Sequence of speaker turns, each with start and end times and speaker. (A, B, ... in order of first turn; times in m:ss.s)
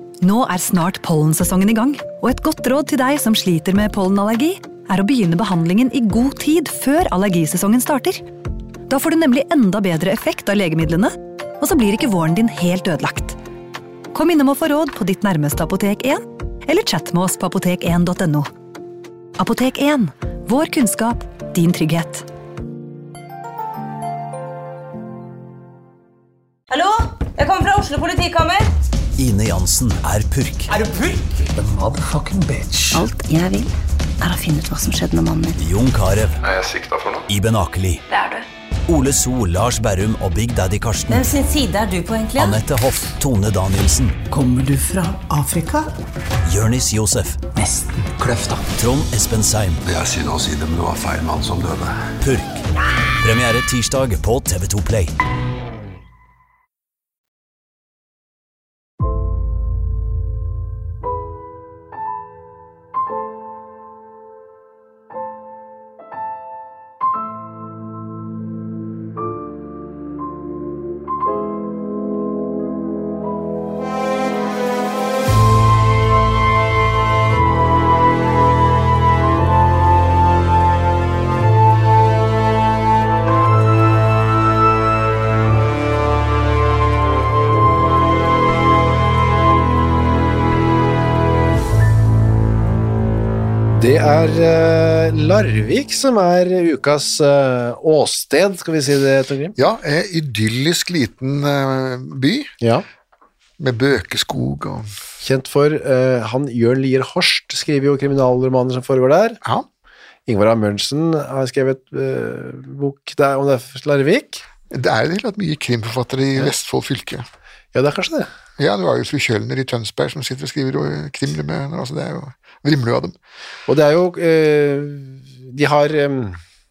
0:00.2-0:08.2 A
0:08.9-0:13.4 A
0:14.1-0:18.5 A
0:19.4-0:22.3 A
0:26.7-0:28.7 B
0:29.2-0:30.7 C
0:30.8-0:33.0 D
0:32.9-0:35.6 E
0:35.6-0:36.4 C
0:36.4-0:37.3 F
0:37.3-0:38.0 C
0:38.9-0:41.3 C
0:41.1-0:42.6 B
0:42.4-0:44.2 C
0:44.3-0:45.9 D
0:46.4-0:47.5 C
0:47.5-0:48.7 D
0:48.7-0:49.8 C
0:49.9-0:52.0 F
0:52.2-0:52.7 C
0:53.2-0:55.1 C
1:33.7-1:39.6 G
1:39.6-1:42.5 H
1:43.6-1:44.9 H
1:45.2-1:49.4 G
1:50.3-1:54.4 G
1:54.7-1:57.2 H
1:57.7-1:58.3 G
1:58.6-2:03.2 H
2:03.7-2:06.4 G